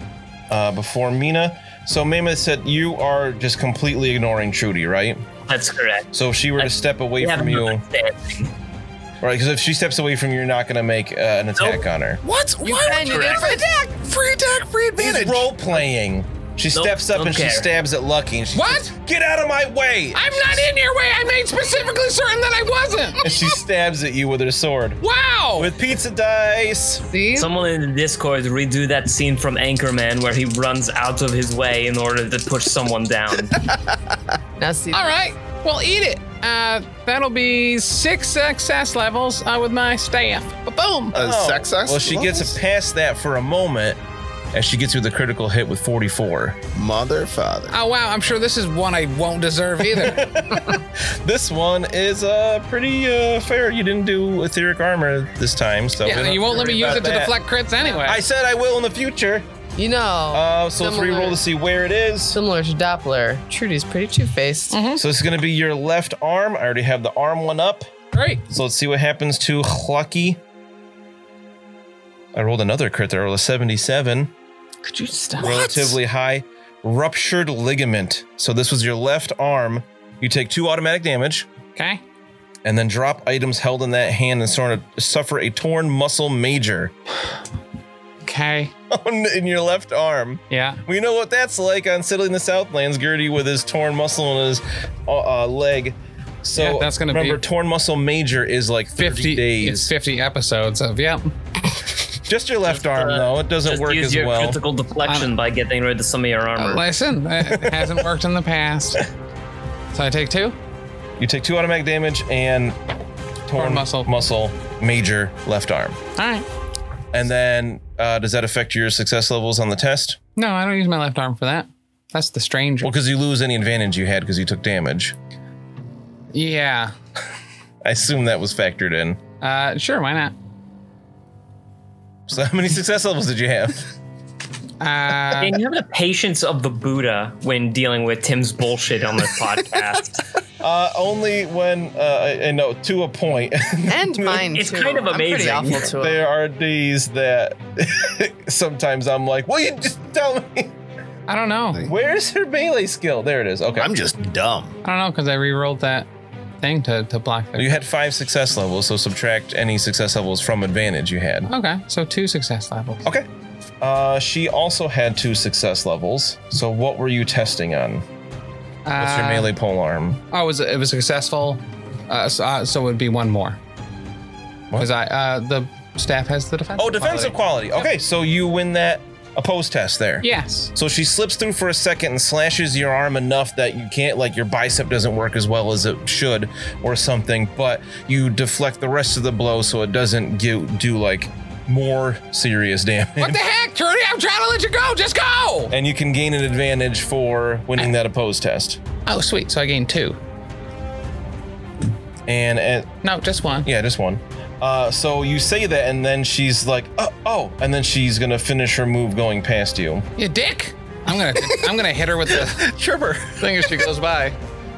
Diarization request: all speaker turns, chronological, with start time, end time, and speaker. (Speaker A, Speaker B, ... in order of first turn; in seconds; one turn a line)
Speaker A: 0.5-5.2
Speaker B: 5.5-8.5
Speaker A: 6.1-7.8
Speaker A: 9.2-12.2
Speaker B: 11.6-11.8
Speaker C: 12.2-15.5
Speaker D: 12.6-13.8
Speaker B: 13.0-13.6
Speaker A: 15.0-20.7
Speaker B: 16.7-17.7
Speaker E: 18.5-18.9
Speaker E: 20.1-23.2
Speaker A: 23.2-25.0
Speaker E: 25.0-25.7
Speaker A: 25.6-27.1
Speaker D: 27.1-27.5
Speaker B: 27.4-33.7
Speaker C: 33.6-34.2
Speaker D: 34.6-35.1
Speaker E: 34.9-41.2
Speaker C: 41.1-42.5
Speaker A: 41.1-44.0
Speaker A: 44.5-46.6
Speaker C: 46.8-47.8
Speaker E: 47.7-50.3
Speaker A: 49.9-57.4
Speaker E: 56.0-58.2
Speaker A: 57.9-59.5
Speaker D: 59.8-61.4
Speaker A: 60.3-62.4
Speaker D: 62.3-64.8
Speaker E: 64.7-65.0
Speaker A: 65.0-67.8
Speaker E: 68.1-68.4
Speaker A: 68.5-70.4
Speaker A: 72.3-74.3
Speaker D: 74.8-75.6
Speaker E: 75.4-76.0
Speaker A: 75.4-81.5
Speaker E: 81.8-82.0
Speaker A: 82.7-86.9
Speaker E: 88.2-88.7
Speaker A: 88.9-99.9
Speaker E: 90.5-90.8
Speaker E: 96.5-97.4
Speaker E: 99.0-101.3
Speaker A: 102.2-104.6
Speaker B: 102.7-106.8
Speaker E: 105.0-105.3
Speaker E: 106.6-109.0
Speaker A: 107.5-107.9
Speaker E: 109.9-110.6
Speaker A: 111.2-112.8
Speaker A: 113.5-116.0
Speaker E: 113.5-114.1
Speaker E: 116.2-116.5
Speaker A: 117.1-120.2
Speaker E: 120.4-122.9
Speaker A: 122.8-125.2
Speaker E: 126.3-126.9
Speaker A: 127.8-129.2
Speaker E: 129.4-130.3
Speaker A: 132.3-133.9
Speaker E: 134.8-135.6
Speaker B: 135.4-140.2
Speaker A: 140.6-144.6
Speaker D: 143.9-146.2
Speaker B: 144.5-145.9
Speaker A: 145.9-150.8
Speaker E: 151.3-151.8
Speaker A: 151.8-153.9
Speaker C: 153.8-154.8
Speaker E: 154.8-156.1
Speaker E: 156.6-157.8
Speaker A: 157.6-161.5
Speaker E: 161.4-163.1
Speaker A: 163.8-168.1
Speaker E: 168.8-169.5
Speaker A: 169.0-170.2
Speaker E: 170.3-173.6
Speaker E: 174.8-177.8
Speaker A: 176.8-193.4
Speaker E: 180.2-180.7
Speaker E: 193.2-195.7
Speaker A: 195.7-198.8
Speaker E: 199.1-200.2
Speaker A: 202.3-202.9
Speaker E: 203.0-203.7
Speaker A: 203.6-210.1
Speaker E: 210.2-212.7
Speaker C: 211.3-211.7
Speaker C: 212.3-213.9
Speaker E: 213.4-214.4